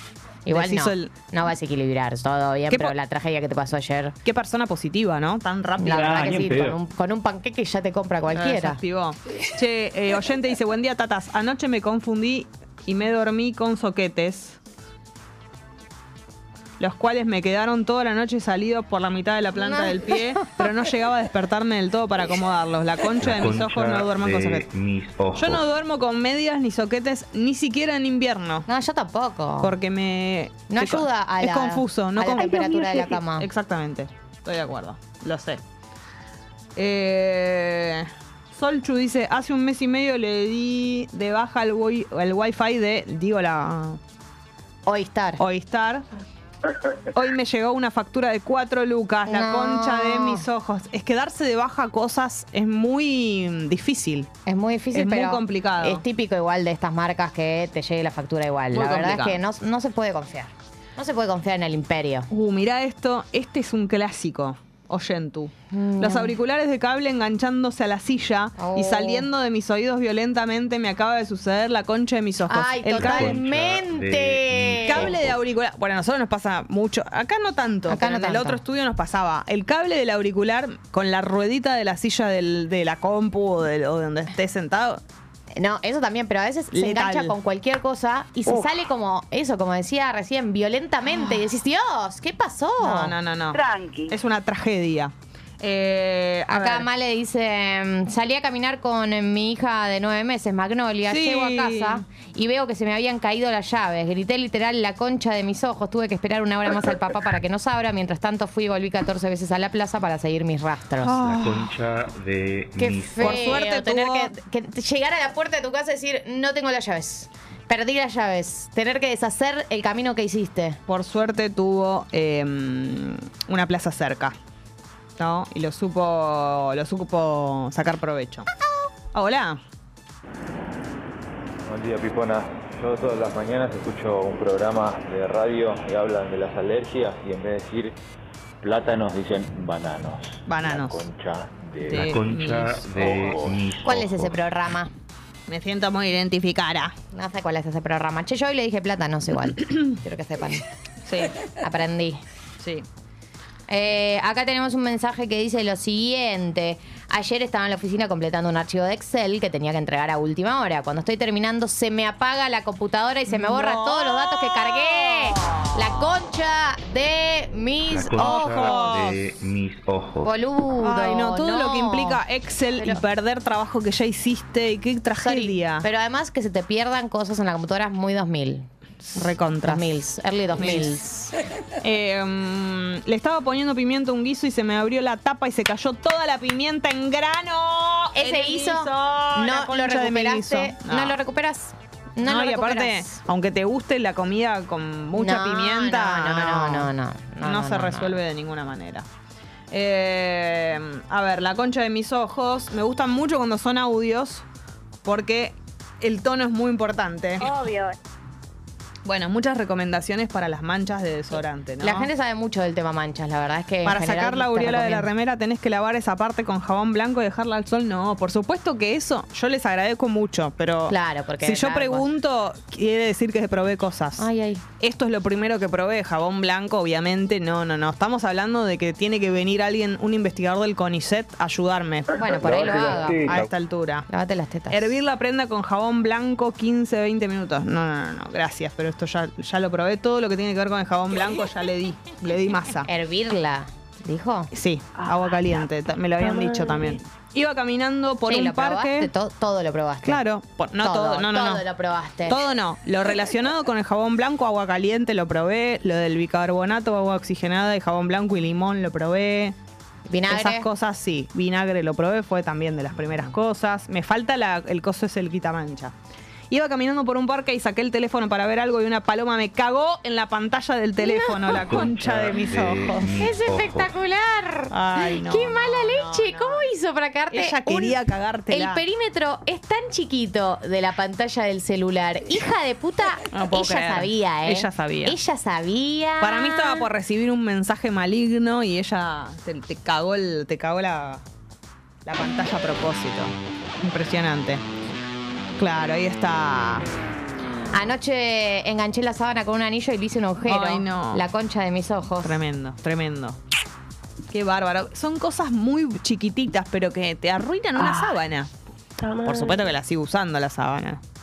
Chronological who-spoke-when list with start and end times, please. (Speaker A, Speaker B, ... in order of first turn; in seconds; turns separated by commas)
Speaker A: 0.5-4.2, Speaker B: 0.5-1.1, Speaker B: 4.2-6.7, Speaker A: 5.8-8.8, Speaker B: 8.3-14.6, Speaker B: 16.8-24.7, Speaker A: 19.6-20.6, Speaker C: 23.2-25.6, Speaker B: 25.4-28.6, Speaker A: 28.7-29.7, Speaker B: 29.6-32.7, Speaker A: 30.7-33.5, Speaker D: 32.4-33.2, Speaker B: 33.4-35.6, Speaker B: 36.8-44.0, Speaker A: 44.9-45.4, Speaker B: 45.4-46.0, Speaker B: 47.1-54.3, Speaker A: 49.3-50.5, Speaker A: 54.5-62.3, Speaker B: 54.9-56.0, Speaker B: 58.7-59.4, Speaker B: 62.3-73.4, Speaker A: 65.7-66.3, Speaker A: 68.6-69.3, Speaker A: 72.5-75.2, Speaker C: 73.0-75.4, Speaker B: 74.8-85.0, Speaker A: 77.9-78.6, Speaker A: 85.6-93.1, Speaker B: 86.7-87.4, Speaker B: 92.8-96.9, Speaker D: 93.5-94.2, Speaker A: 96.5-111.2, Speaker B: 101.1-102.0, Speaker B: 111.0-111.8, Speaker C: 111.2-113.6, Speaker A: 112.8-120.8, Speaker B: 113.2-114.3, Speaker B: 120.9-124.4, Speaker B: 125.2-128.5, Speaker B: 129.1-129.6, Speaker E: 131.7-137.9, Speaker E: 138.6-142.3, Speaker B: 140.5-141.1, Speaker B: 141.9-142.9, Speaker C: 141.9-144.5, Speaker E: 142.9-143.8, Speaker A: 143.8-144.9, Speaker B: 145.5-146.9, Speaker A: 147.1-150.7, Speaker B: 151.1-151.3, Speaker A: 151.6-152.2, Speaker B: 152.6-152.9, Speaker A: 153.7-168.9, Speaker B: 163.3-165.7, Speaker C: 167.9-170.3, Speaker B: 168.2-169.2, Speaker A: 170.2-172.2, Speaker B: 170.8-175.9, Speaker A: 172.8-173.0, Speaker A: 175.2-178.7, Speaker B: 179.1-179.9, Speaker A: 179.6-181.3, Speaker B: 180.6-180.9, Speaker B: 181.8-191.2, Speaker A: 188.2-193.2, Speaker B: 192.2-196.9, Speaker A: 195.2-198.2, Speaker B: 197.4-199.1, Speaker B: 199.7-204.4, Speaker B: 205.1-207.6, Speaker D: 207.4-207.9, Speaker B: 209.1-212.1, Speaker A: 211.8-215.1, Speaker B: 213.8-224.3, Speaker A: 220.9-222.1, Speaker A: 224.2-224.6, Speaker B: 224.8-234.1, Speaker A: 232.2-233.4, Speaker A: 234.1-234.9, Speaker B: 234.7-242.9, Speaker A: 242.9-244.5, Speaker B: 244.5-249.1, Speaker A: 248.3-250.2, Speaker B: 250.1-251.6, Speaker A: 250.8-252.4, Speaker B: 252.3-259.6, Speaker A: 260.1-260.7, Speaker B: 260.3-265.9, Speaker B: 266.5-273.1, Speaker A: 271.0-271.9, Speaker C: 271.6-273.9, Speaker A: 272.9-278.0, Speaker B: 274.7-276.6, Speaker B: 277.3-278.8, Speaker A: 278.5-286.9, Speaker B: 283.3-285.2, Speaker B: 286.2-291.2, Speaker B: 292.1-294.6, Speaker B: 295.6-296.9, Speaker A: 297.7-302.4, Speaker B: 300.5-301.2, Speaker B: 302.2-303.4, Speaker B: 304.3-308.5, Speaker B: 309.1-311.0